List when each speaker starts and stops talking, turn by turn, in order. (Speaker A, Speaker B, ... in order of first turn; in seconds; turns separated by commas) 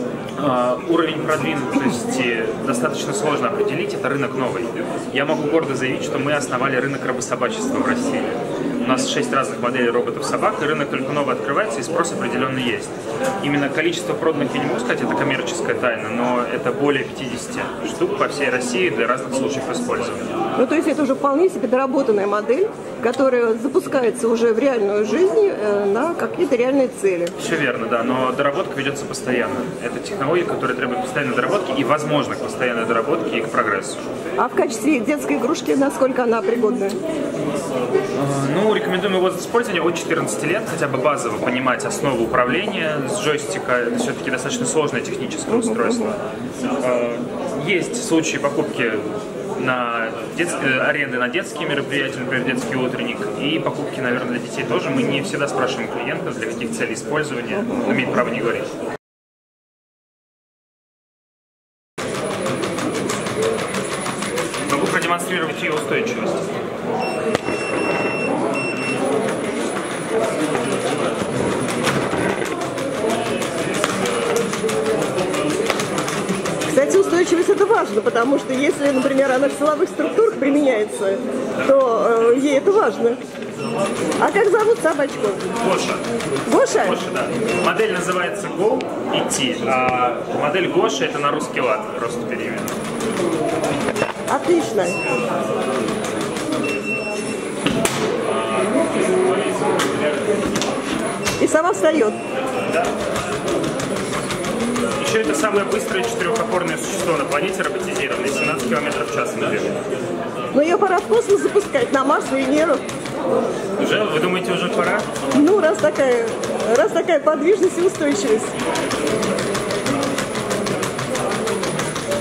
Speaker A: 0.4-20.3, Speaker B: 20.6-27.3, Speaker A: 27.4-34.0, Speaker B: 34.4-37.0, Speaker A: 38.1-46.2, Speaker B: 45.5-46.1, Speaker A: 46.8-49.0, Speaker A: 49.5-58.7, Speaker A: 64.7-66.5, Speaker B: 76.7-83.2, Speaker B: 84.2-85.4, Speaker A: 85.6-86.0, Speaker B: 86.5-87.0, Speaker A: 86.6-92.7, Speaker B: 94.3-95.0, Speaker B: 101.4-102.2, Speaker A: 102.7-102.9, Speaker A: 105.0-109.8, Speaker B: 110.5-112.8, Speaker A: 113.8-115.0, Speaker B: 115.3-118.5